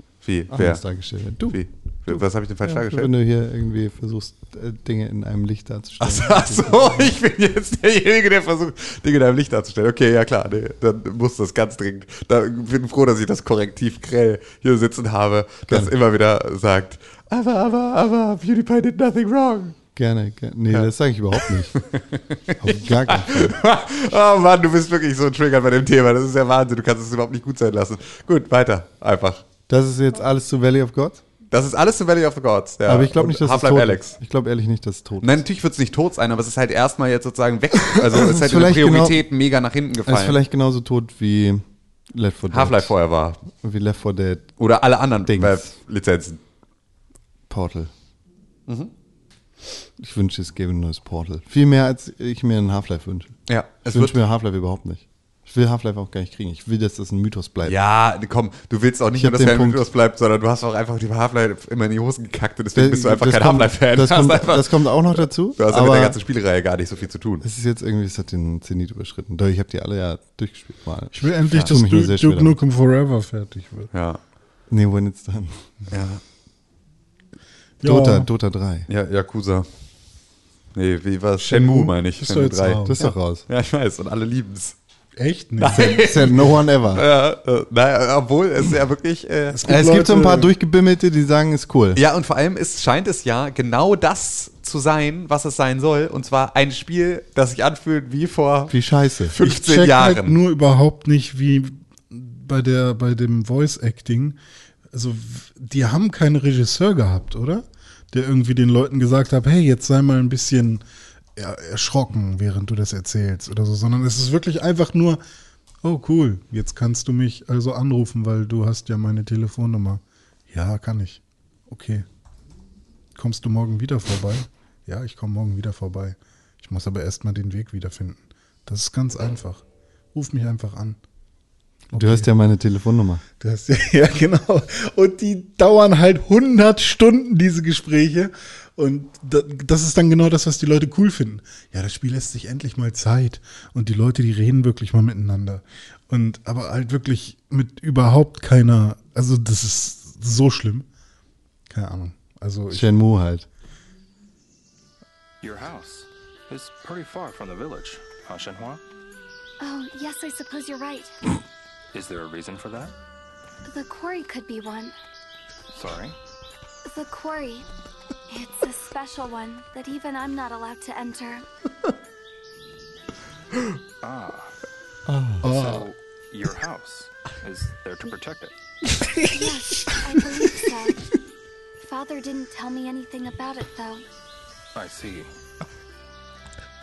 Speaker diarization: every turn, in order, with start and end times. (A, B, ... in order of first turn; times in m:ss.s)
0:00.2-0:03.1 A
0:00.5-0:07.1 B
0:06.0-0:19.8 A
0:15.7-0:15.9 B
0:19.9-0:21.8 B
0:20.7-0:29.4 A
0:22.6-0:23.5 B
0:29.7-0:31.2 B
0:31.5-0:34.1 A
0:32.8-0:35.4 B
0:35.2-0:40.4 A
0:37.9-0:39.2 B
0:40.0-0:42.9 B
0:42.5-0:43.4 A
0:43.4-0:44.5 B
0:44.6-0:46.4 A
0:45.3-0:45.6 B
0:47.5-0:47.9 B
0:50.0-0:53.4 B
0:53.5-0:54.1 A
0:53.9-0:57.8 B
0:57.6-1:07.4 A
0:59.2-0:59.8 B
1:02.7-1:06.2 B
1:07.4-1:12.6 B
1:11.1-1:13.9 C
1:13.9-1:14.2 A
1:14.7-1:15.6 B
1:15.9-1:16.2 A
1:17.8-1:18.3 C
1:17.8-1:18.9 B
1:18.9-1:19.7 A
1:20.7-1:24.8 A
1:21.4-1:23.0 C
1:22.8-1:23.4 B
1:25.2-1:26.4 C
1:25.6-1:29.6 A
1:25.7-1:27.0 B
1:29.5-1:30.5 C
1:29.7-1:32.0 B
1:31.9-1:38.7 A
1:38.7-1:39.3 B
1:39.3-1:40.4 A
1:39.4-1:44.4 C
1:44.9-1:50.8 C
1:51.4-1:55.2 C
1:55.8-2:02.0 C
2:03.1-2:09.6 C
2:10.1-2:11.0 C
2:11.9-2:12.3 C
2:11.9-2:13.2 B
2:13.4-2:30.9 C
2:31.7-2:33.0 C
2:32.7-2:33.5 B
2:35.4-2:38.8 D
2:39.6-2:41.1 E
2:41.9-2:42.9 D
2:43.6-2:44.9 E
2:45.7-2:46.2 D
2:46.8-2:47.6 E
2:48.3-2:51.4 E
2:54.0-2:54.6 D
2:55.1-2:55.4 B
2:55.4-2:55.9 C
2:55.4-2:58.6 D
2:59.2-3:01.0 E
3:01.8-3:04.0 E
3:04.7-3:05.3 D